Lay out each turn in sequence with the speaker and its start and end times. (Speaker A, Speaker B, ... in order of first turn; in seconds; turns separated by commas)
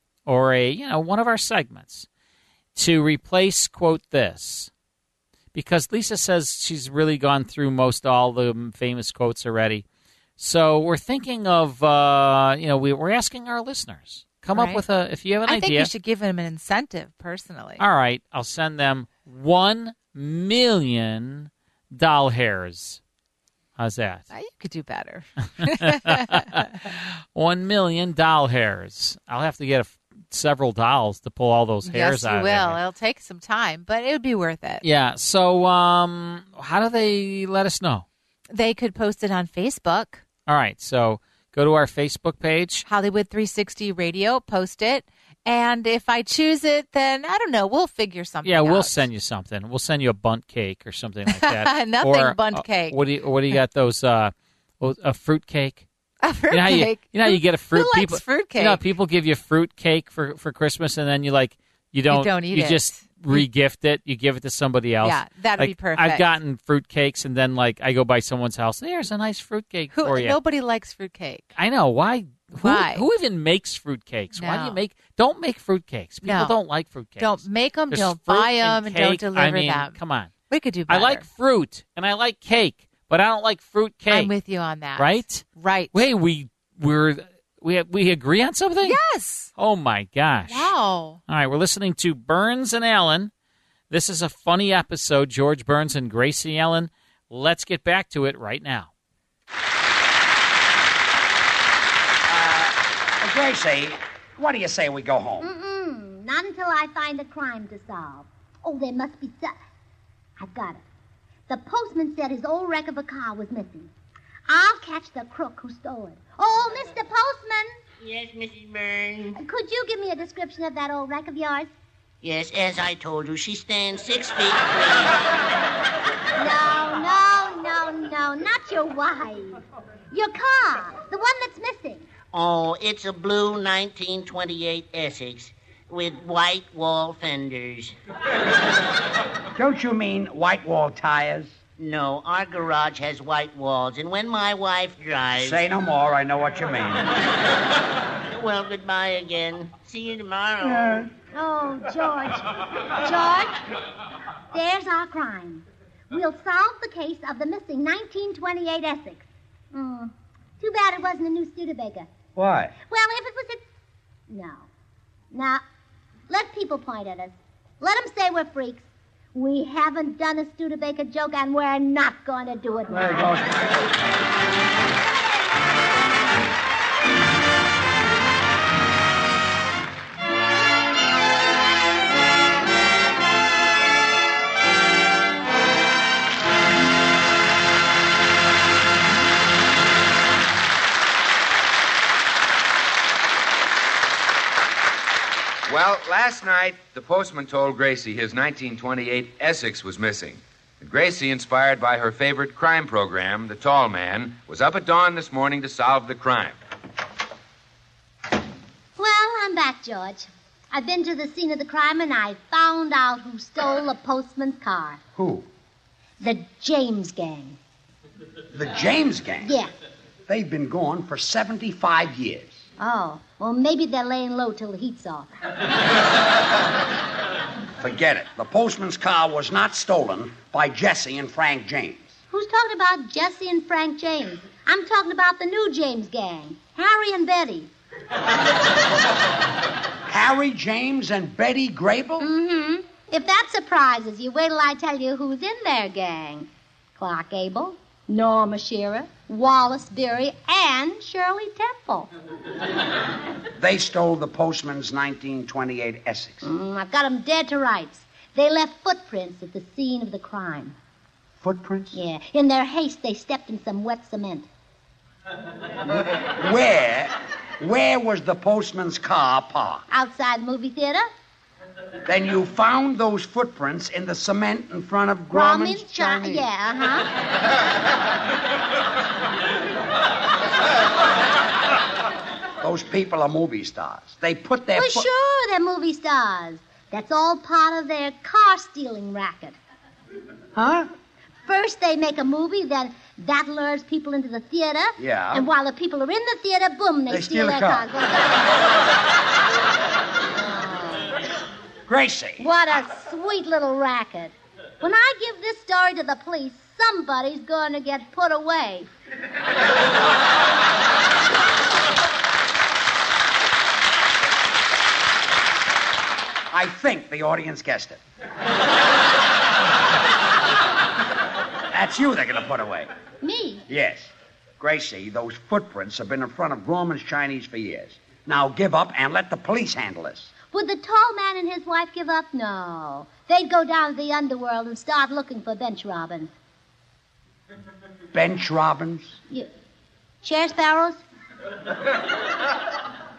Speaker A: 0.2-2.1, Speaker A: 2.7-4.7, Speaker A: 5.5-9.8, Speaker A: 10.4-15.9, Speaker B: 14.5-14.8, Speaker B: 15.4-17.8, Speaker A: 17.8-23.0, Speaker A: 23.8-24.2, Speaker B: 24.3-26.6, Speaker A: 25.8-32.8, Speaker B: 31.8-34.8, Speaker A: 34.8-38.0, Speaker B: 38.5-40.2, Speaker A: 40.5-42.8, Speaker B: 42.8-49.0, Speaker A: 48.4-55.8, Speaker B: 51.3-53.0, Speaker B: 56.2-58.8, Speaker A: 56.5-70.4, Speaker B: 62.1-63.5, Speaker B: 65.0-66.3, Speaker B: 69.9-71.5, Speaker A: 71.5-80.3, Speaker B: 72.6-73.0, Speaker B: 74.3-74.8, Speaker B: 76.2-76.6, Speaker B: 77.2-80.0, Speaker B: 80.5-81.3, Speaker A: 80.9-84.3, Speaker B: 84.1-85.9, Speaker A: 85.0-89.0, Speaker B: 88.8-89.5, Speaker A: 89.5-90.7, Speaker B: 90.5-91.2, Speaker A: 91.3-93.3, Speaker A: 93.9-98.9, Speaker C: 102.3-105.5, Speaker D: 105.4-109.5, Speaker D: 110.4-110.8, Speaker D: 111.5-113.9, Speaker D: 114.5-117.7, Speaker E: 118.0-119.4, Speaker D: 119.4-121.7, Speaker E: 122.2-125.2, Speaker D: 126.3-129.6, Speaker D: 130.1-132.1, Speaker E: 132.3-137.9, Speaker C: 139.5-141.6, Speaker E: 141.8-145.6, Speaker C: 145.4-147.1, Speaker E: 148.3-151.1, Speaker D: 151.3-153.6, Speaker D: 154.5-162.1, Speaker F: 162.3-162.7, Speaker D: 162.8-163.6, Speaker D: 164.3-164.7, Speaker D: 165.3-165.6, Speaker D: 166.3-173.3, Speaker C: 172.9-173.5, Speaker F: 195.7-206.6, Speaker D: 209.0-215.0, Speaker C: 215.1-215.5, Speaker D: 216.2-217.6, Speaker C: 218.5-219.6, Speaker D: 219.4-219.7, Speaker C: 220.3-222.6, Speaker D: 222.8-225.3, Speaker C: 227.8-232.2, Speaker D: 232.3-237.7, Speaker C: 240.1-242.3, Speaker D: 242.2-252.1, Speaker C: 253.6-256.4, Speaker D: 256.4-260.7, Speaker C: 261.4-261.9, Speaker D: 261.9-264.4, Speaker C: 266.1-269.8, Speaker D: 269.9-271.0, Speaker C: 272.1-276.5, Speaker D: 275.3-277.1, Speaker C: 282.6-285.1, Speaker D: 284.7-289.6, Speaker D: 291.4-298.6, Speaker C: 295.0-295.5, Speaker C: 297.1-297.9, Speaker D: 300.3-301.1, Speaker C: 301.9-302.5, Speaker D: 302.4-308.9, Speaker C: 316.5-318.0, Speaker C: 321.7-322.9, Speaker D: 323.2-323.6, Speaker C: 323.7-330.3, Speaker D: 330.5-336.3, Speaker C: 338.1-339.2, Speaker D: 340.2-341.0